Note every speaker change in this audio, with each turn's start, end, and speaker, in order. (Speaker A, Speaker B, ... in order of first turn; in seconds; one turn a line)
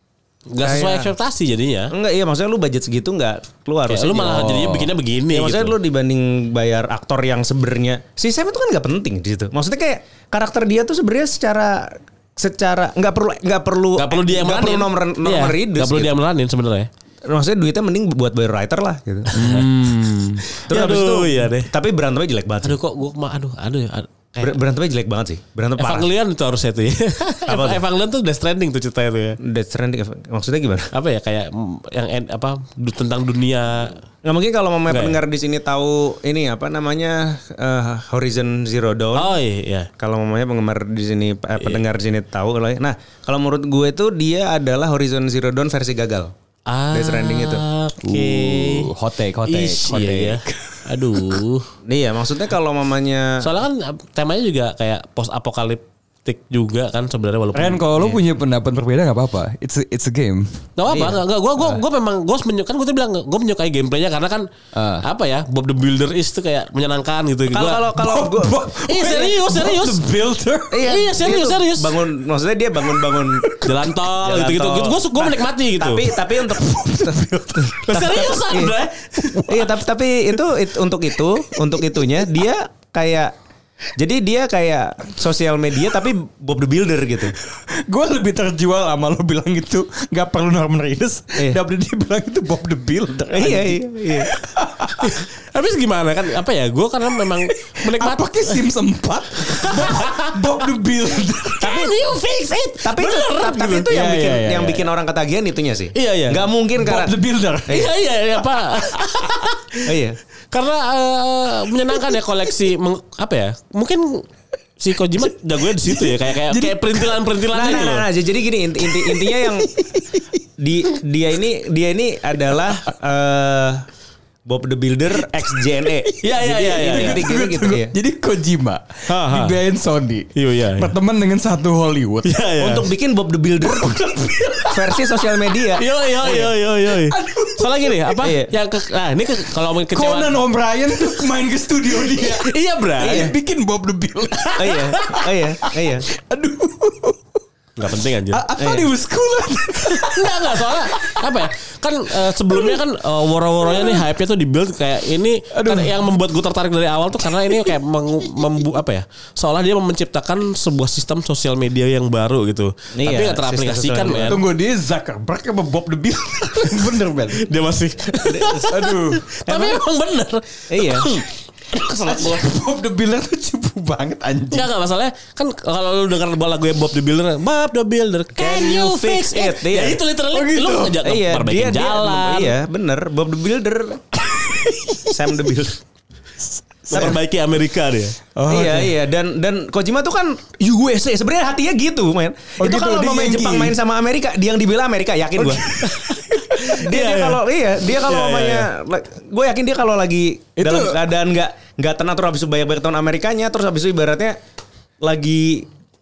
Speaker A: 0.5-1.9
Speaker B: 0.6-1.1
Speaker B: 1.9-4.6
Speaker A: 3.9-5.8
Speaker C: 4.3-4.9
Speaker B: 5.3-16.1
Speaker A: 13.9-16.9
Speaker B: 17.2-19.3
Speaker C: 19.3-20.4
Speaker A: 19.3-21.7
Speaker B: 20.6-22.8
Speaker A: 22.6-24.5
Speaker B: 24.4-26.1
Speaker A: 25.8-29.4
Speaker B: 27.5-27.8
Speaker B: 29.4-30.9
Speaker A: 30.9-34.0
Speaker B: 34.2-39.3
Speaker A: 34.9-35.2
Speaker A: 39.1-39.9
Speaker B: 40.0-46.3
Speaker A: 46.7-48.9
Speaker B: 46.9-47.6
Speaker C: 48.0-51.4
Speaker A: 49.5-51.7
Speaker B: 51.8-53.5
Speaker A: 53.4-57.8
Speaker C: 57.5-60.7
Speaker A: 60.8-64.5
Speaker B: 60.9-61.2
Speaker C: 64.7-65.0
Speaker A: 65.0-67.8
Speaker B: 67.5-69.2
Speaker C: 67.9-70.9
Speaker A: 68.9-70.0
Speaker B: 70.7-73.6
Speaker A: 70.8-71.9
Speaker C: 72.8-73.9
Speaker A: 73.6-76.1
Speaker B: 74.2-78.7
Speaker C: 76.3-78.3
Speaker A: 77.8-79.8
Speaker C: 79.2-79.5
Speaker B: 79.5-83.3
Speaker C: 81.4-82.2
Speaker B: 84.0-87.3
Speaker C: 87.4-95.2
Speaker B: 93.3-94.3
Speaker A: 95.0-98.6
Speaker C: 97.3-101.9
Speaker A: 99.5-100.4
Speaker A: 101.6-103.9
Speaker B: 102.8-107.1
Speaker C: 103.9-104.9
Speaker A: 105.9-106.5
Speaker C: 106.8-107.9
Speaker B: 107.7-107.9
Speaker A: 107.7-109.8
Speaker C: 108.6-109.6
Speaker B: 109.8-110.2
Speaker A: 110.5-114.3
Speaker A: 114.8-118.1
Speaker C: 115.6-117.2
Speaker B: 117.5-119.7
Speaker C: 118.8-120.4
Speaker B: 120.6-123.8
Speaker B: 124.5-127.9
Speaker C: 125.2-132.3
Speaker A: 126.2-127.2
Speaker B: 129.1-129.6
Speaker A: 130.3-130.9
Speaker A: 132.2-132.9
Speaker B: 132.6-134.1
Speaker C: 133.6-135.3
Speaker B: 134.7-136.5
Speaker A: 135.7-140.4
Speaker C: 136.9-138.2
Speaker B: 138.2-138.5
Speaker C: 139.9-147.2
Speaker A: 142.0-143.3
Speaker A: 144.4-145.2
Speaker B: 144.6-146.1
Speaker A: 147.8-148.4
Speaker C: 148.3-151.4
Speaker B: 148.6-148.9
Speaker A: 149.9-164.4
Speaker C: 152.4-152.8
Speaker C: 153.6-154.1
Speaker C: 155.5-155.9
Speaker C: 157.2-157.8
Speaker B: 163.0-164.4
Speaker C: 164.2-167.5
Speaker A: 167.3-172.4
Speaker C: 168.3-169.7
Speaker B: 170.7-171.1
Speaker C: 171.1-174.7
Speaker A: 174.5-182.5
Speaker B: 178.3-180.0
Speaker C: 180.3-181.0
Speaker B: 181.0-184.0
Speaker C: 184.2-185.5
Speaker B: 185.1-185.8
Speaker C: 186.6-187.2
Speaker A: 186.9-188.2
Speaker C: 188.3-188.9
Speaker B: 188.5-195.8
Speaker C: 192.6-193.8
Speaker C: 195.4-196.8
Speaker A: 195.8-197.4
Speaker B: 196.7-204.3
Speaker A: 198.0-198.7
Speaker C: 200.6-201.0
Speaker B: 205.0-205.7